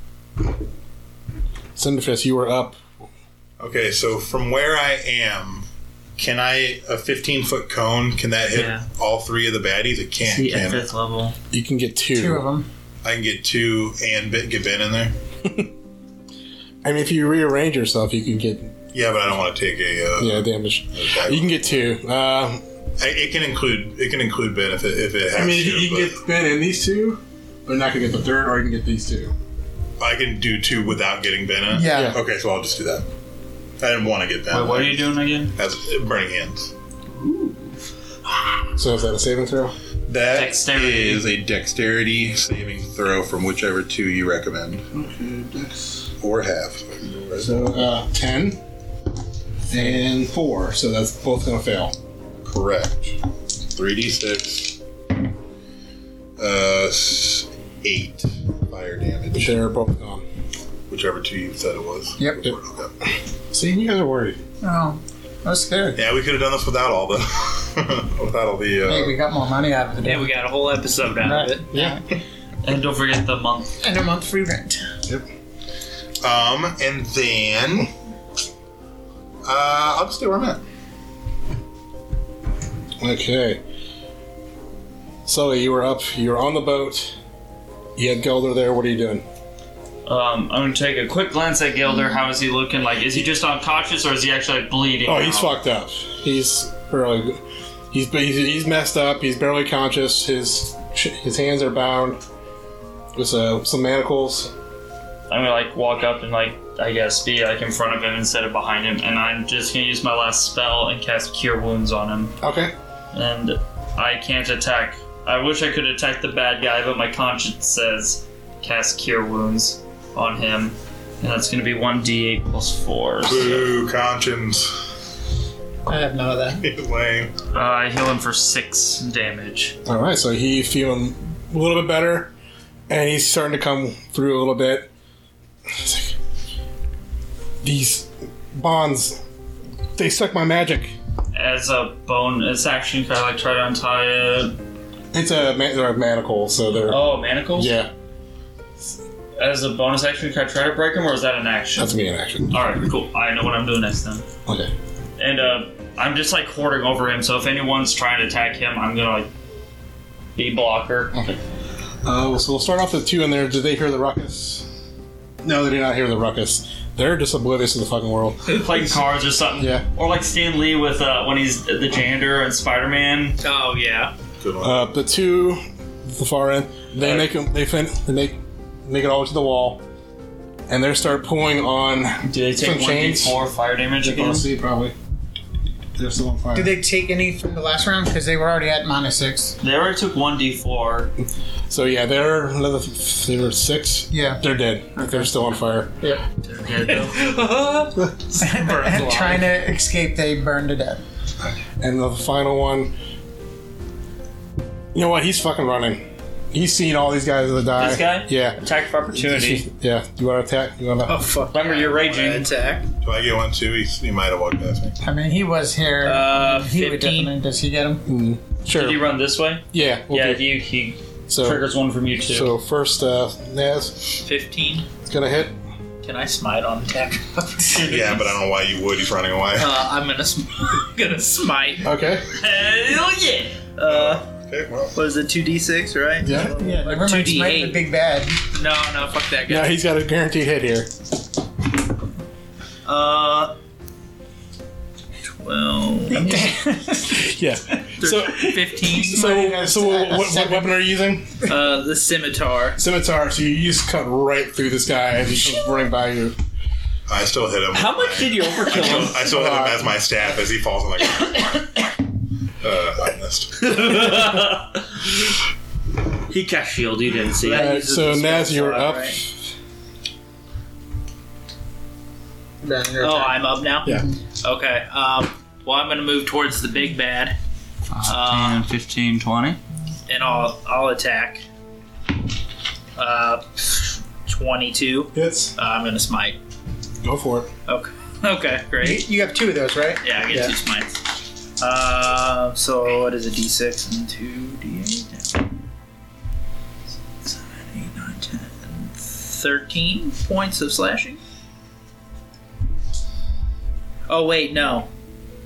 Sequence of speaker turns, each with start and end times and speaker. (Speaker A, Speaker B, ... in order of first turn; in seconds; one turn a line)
Speaker A: 1.8-3.0
Speaker B: 3.6-5.7
Speaker B: 6.2-10.9
Speaker C: 8.5-8.8
Speaker C: 10.2-11.4
Speaker A: 11.5-12.4
Speaker D: 12.1-12.7
Speaker B: 13.0-15.1
Speaker A: 15.4-15.7
Speaker A: 16.8-18.7
Speaker B: 18.9-21.8
Speaker A: 20.2-22.6
Speaker B: 23.0-26.1
Speaker A: 25.4-29.3
Speaker B: 30.0-33.1
Speaker D: 31.7-32.2
Speaker A: 31.9-32.2
Speaker B: 33.8-36.7
Speaker C: 34.5-35.5
Speaker A: 38.8-39.8
Speaker B: 40.1-44.9
Speaker C: 40.3-41.3
Speaker A: 44.9-46.1
Speaker B: 46.2-47.9
Speaker A: 47.4-48.6
Speaker A: 49.7-52.0
Speaker B: 52.4-53.2
Speaker B: 53.7-54.8
Speaker B: 56.4-59.6
Speaker A: 59.4-60.2
Speaker B: 60.9-62.9
Speaker A: 63.5-64.4
Speaker D: 64.6-66.0
Speaker B: 66.0-69.2
Speaker D: 68.9-70.3
Speaker E: 70.0-71.9
Speaker D: 71.2-72.0
Speaker C: 72.6-73.7
Speaker D: 73.8-74.8
Speaker B: 76.2-77.9
Speaker B: 79.4-80.6
Speaker A: 83.0-83.6
Speaker A: 85.3-87.2
Speaker A: 88.0-89.2
Speaker C: 90.0-95.6
Speaker A: 95.1-97.4
Speaker A: 97.9-102.2
Speaker A: 103.2-104.5
Speaker C: 105.3-112.4
Speaker A: 112.4-112.7
Speaker C: 113.1-123.7
Speaker B: 123.2-124.7
Speaker D: 125.9-126.6
Speaker B: 126.6-127.3
Speaker C: 127.5-129.8
Speaker A: 129.8-132.3
Speaker A: 132.9-134.9
Speaker A: 135.7-136.2
Speaker A: 137.6-139.2
Speaker A: 140.0-140.9
Speaker C: 141.3-144.6
Speaker A: 145.1-147.0
Speaker C: 146.9-147.7
Speaker A: 147.5-147.9
Speaker C: 149.4-152.0
Speaker A: 151.8-152.6
Speaker C: 152.5-154.3
Speaker A: 154.5-154.7
Speaker C: 155.2-159.3
Speaker C: 160.4-161.1
Speaker A: 161.1-161.4
Speaker A: 162.0-164.7
Speaker A: 165.4-168.6
Speaker C: 168.5-173.4
Speaker A: 169.6-169.8
Speaker E: 173.4-174.1
Speaker B: 174.4-174.9
Speaker A: 174.6-179.8
Speaker C: 177.0-177.3
Speaker A: 180.7-183.4
Speaker C: 182.2-184.5
Speaker A: 184.0-184.9
Speaker A: 186.0-186.7
Speaker D: 186.5-189.6
Speaker C: 189.6-191.1
Speaker A: 191.7-195.9
Speaker D: 194.1-194.4
Speaker D: 195.0-195.3
Speaker C: 196.4-197.2
Speaker E: 196.8-199.4
Speaker D: 198.4-201.0
Speaker A: 201.8-202.9
Speaker A: 204.9-208.6
Speaker C: 207.8-209.7
Speaker A: 209.1-211.2
Speaker E: 211.1-212.9
Speaker C: 211.5-212.5
Speaker B: 213.0-215.0
Speaker D: 215.0-218.0
Speaker E: 216.0-217.3
Speaker A: 218.1-219.1
Speaker C: 218.7-222.5
Speaker A: 219.7-220.4
Speaker A: 221.3-221.7
Speaker A: 222.2-224.2
Speaker E: 224.2-224.9
Speaker A: 225.1-225.6
Speaker E: 226.0-228.4
Speaker B: 227.8-229.8
Speaker E: 229.6-231.9
Speaker A: 231.8-232.2
Speaker C: 232.4-233.6
Speaker E: 232.6-232.9
Speaker E: 233.8-234.3
Speaker B: 233.8-235.0
Speaker E: 234.9-237.8
Speaker A: 236.2-236.5
Speaker D: 236.4-238.4
Speaker E: 238.5-239.7
Speaker A: 239.5-240.9
Speaker E: 242.8-243.6
Speaker E: 245.2-246.6
Speaker D: 246.2-247.1
Speaker A: 247.1-251.4
Speaker E: 248.0-249.3
Speaker D: 248.9-250.7
Speaker E: 251.4-252.8
Speaker A: 252.8-256.4
Speaker B: 257.1-261.8
Speaker C: 257.7-259.3
Speaker A: 259.2-259.9
Speaker B: 262.6-263.8
Speaker C: 263.6-265.1
Speaker C: 266.3-267.8
Speaker E: 267.4-269.2
Speaker A: 267.5-269.3
Speaker D: 272.6-274.1
Speaker E: 273.0-277.4
Speaker C: 277.9-279.6
Speaker E: 278.1-278.6
Speaker E: 280.1-281.4
Speaker E: 283.0-286.4
Speaker A: 285.1-285.5
Speaker A: 287.0-287.5
Speaker E: 287.7-289.1
Speaker D: 288.8-290.5
Speaker E: 290.0-291.1
Speaker E: 291.6-295.5
Speaker E: 297.2-301.2
Speaker E: 304.1-304.9